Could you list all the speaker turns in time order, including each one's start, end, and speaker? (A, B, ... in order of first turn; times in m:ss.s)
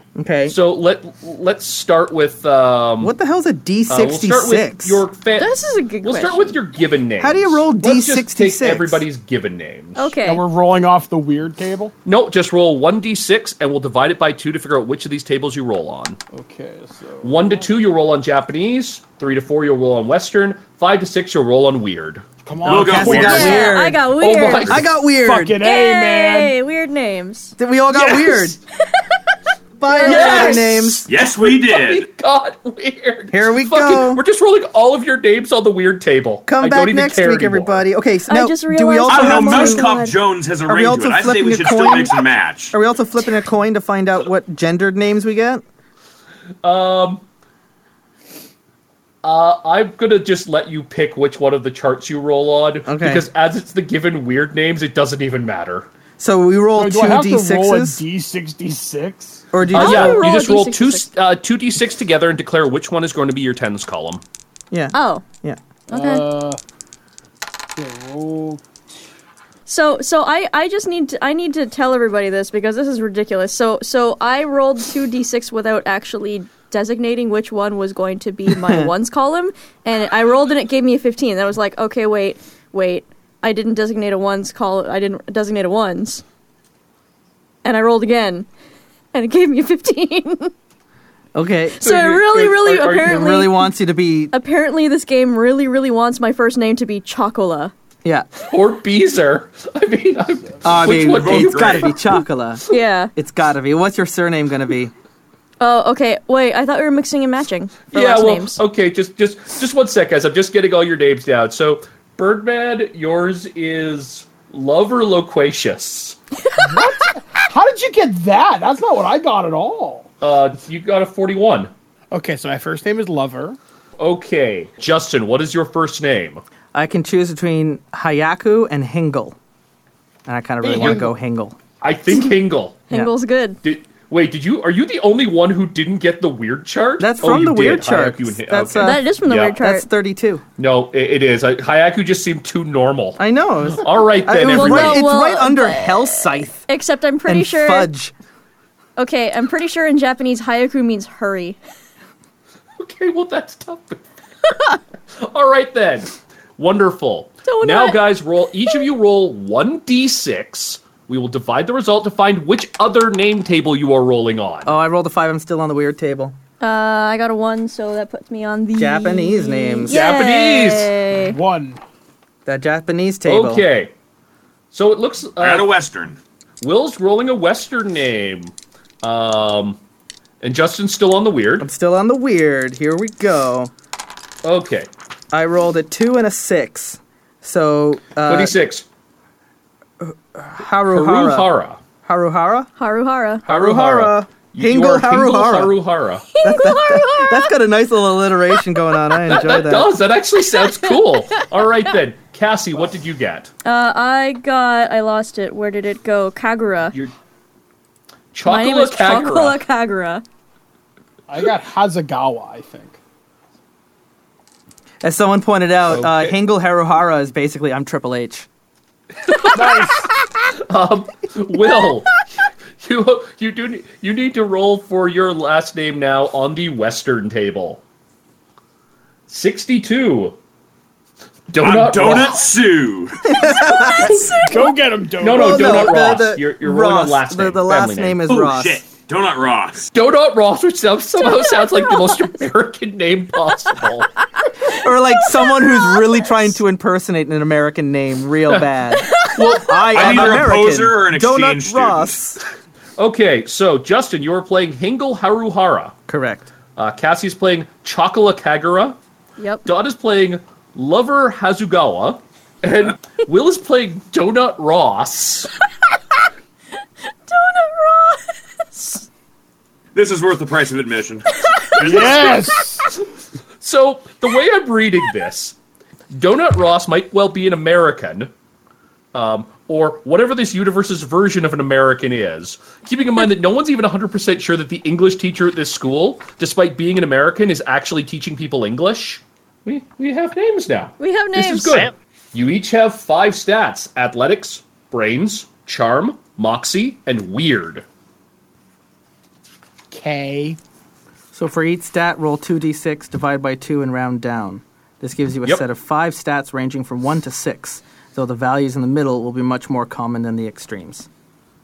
0:00.2-0:00.6 A
0:00.5-0:03.1 B
0:03.0-0:05.0 A
0:03.9-0:10.1 B
0:05.4-0:06.6 C
0:07.2-0:09.0 A
0:10.0-0:10.4 C
0:10.2-0:11.9 D
0:12.0-0:16.2 B
0:16.3-0:17.6 D
0:17.2-0:24.9 B
0:22.4-0:23.5 D
0:22.6-0:23.7 E
0:22.8-0:24.0 A
0:23.2-0:24.8 C
0:24.6-0:25.6 A
0:25.2-0:26.5 D
0:25.6-0:27.6 C
0:27.6-0:28.6 A
0:29.8-0:31.1 A
0:29.9-0:30.7 C
0:30.0-0:37.8 B
0:31.1-0:32.0 E
0:33.3-0:34.2 A
0:36.5-0:39.9 A
0:38.3-0:40.2 C
0:39.1-0:42.7 E
0:40.7-0:42.2 A
0:42.7-0:45.6 A
0:46.6-0:47.2 B
0:49.2-0:55.9 B
0:52.9-0:53.2 A
0:56.2-0:58.0 A
0:56.8-0:59.5 D
0:59.5-1:00.3 A
0:59.7-1:01.1 C
0:59.7-1:04.2 B
1:04.7-1:05.6 A
1:04.9-1:05.2 C
1:05.9-1:06.2 C
1:05.9-1:06.6 D
1:07.8-1:08.6 D
1:09.7-1:26.2 C
1:18.6-1:18.9 A
1:27.6-1:28.5 C
1:29.1-1:30.5 C
1:31.4-1:31.8 A
1:31.8-1:33.7 C
1:31.8-1:33.3 B
1:33.0-1:34.3 A
1:34.3-1:37.7 C
1:38.5-1:42.0 B
1:40.6-1:44.9 A
1:41.1-1:41.9 E
1:42.7-1:43.1 C
1:45.6-1:48.6 C
1:47.9-1:56.2 B
1:56.5-1:56.8 C
1:56.6-2:00.1 D
2:00.2-2:01.7 B
2:02.1-2:03.6 D
2:04.0-2:06.4 B
2:06.7-2:09.4 A
2:10.3-2:11.6 A
2:10.6-2:11.1 D
2:11.8-2:12.8 B
2:12.9-2:13.6 C
2:13.6-2:19.6 B
2:17.0-2:20.4 A
2:18.8-2:19.9 C
2:20.6-2:23.2 B
2:23.2-2:26.7 A
2:23.7-2:25.1 B
2:24.4-2:27.9 C
2:27.3-2:28.1 A
2:29.0-2:31.6 C
2:32.8-2:34.5 B
2:35.2-2:44.7 B
2:37.5-2:38.0 C
2:44.6-2:46.4 A
2:46.6-2:51.4 C
2:48.8-2:50.0 A
2:49.9-2:50.9 B
2:51.2-2:51.8 D
2:52.5-2:53.6 A
2:53.2-2:53.9 B
2:54.7-2:55.7 B
2:55.4-2:56.2 E
2:56.6-2:59.8 B
3:00.4-3:01.7 B
3:01.6-3:03.7 A
3:04.4-3:04.9 B
3:05.3-3:08.6 A
3:08.3-3:08.8 B
3:10.0-3:11.5 A
3:10.9-3:11.8 B
3:12.0-3:12.7 A
3:12.8-3:13.4 C
3:13.5-3:15.8 A
3:13.5-3:16.3 B
3:16.3-3:17.5 C
3:16.4-3:19.9 A
3:19.2-3:23.5 B
3:20.5-3:21.4 C
3:23.6-3:27.0 C
3:28.3-3:29.6 B
3:28.4-3:30.2 C
3:31.3-3:33.0 D
3:35.0-3:38.5 A
3:35.9-3:36.4 B
3:39.3-3:39.8 B
3:39.5-3:40.1 D
3:40.5-3:42.3 B
3:42.8-3:47.8 B
3:49.3-3:50.4 B
3:51.5-3:52.5 B
3:51.6-3:53.5 E
3:53.3-3:54.6 A
3:53.9-3:54.3 B
3:54.3-3:56.0 D
3:55.2-3:58.2 B
3:55.3-3:58.8 A
3:58.3-3:59.9 E
3:59.9-4:04.1 B
4:01.4-4:02.1 C
4:04.7-4:12.4 A
4:09.3-4:10.6 B
4:09.9-4:12.1 E
4:13.0-4:15.9 B
4:16.1-4:16.5 A
4:16.8-4:19.0 B
4:19.4-4:19.7 C
4:19.6-4:25.5 B
4:27.3-4:29.1 C
4:30.0-4:32.4 E
4:31.4-4:31.9 C
4:31.8-4:32.9 D
4:31.9-4:32.2 B
4:33.6-4:35.6 B
4:36.1-4:38.3 B
4:39.1-4:57.8 B
4:51.0-4:51.9 C
4:59.9-5:00.6 D
5:01.3-5:11.1 A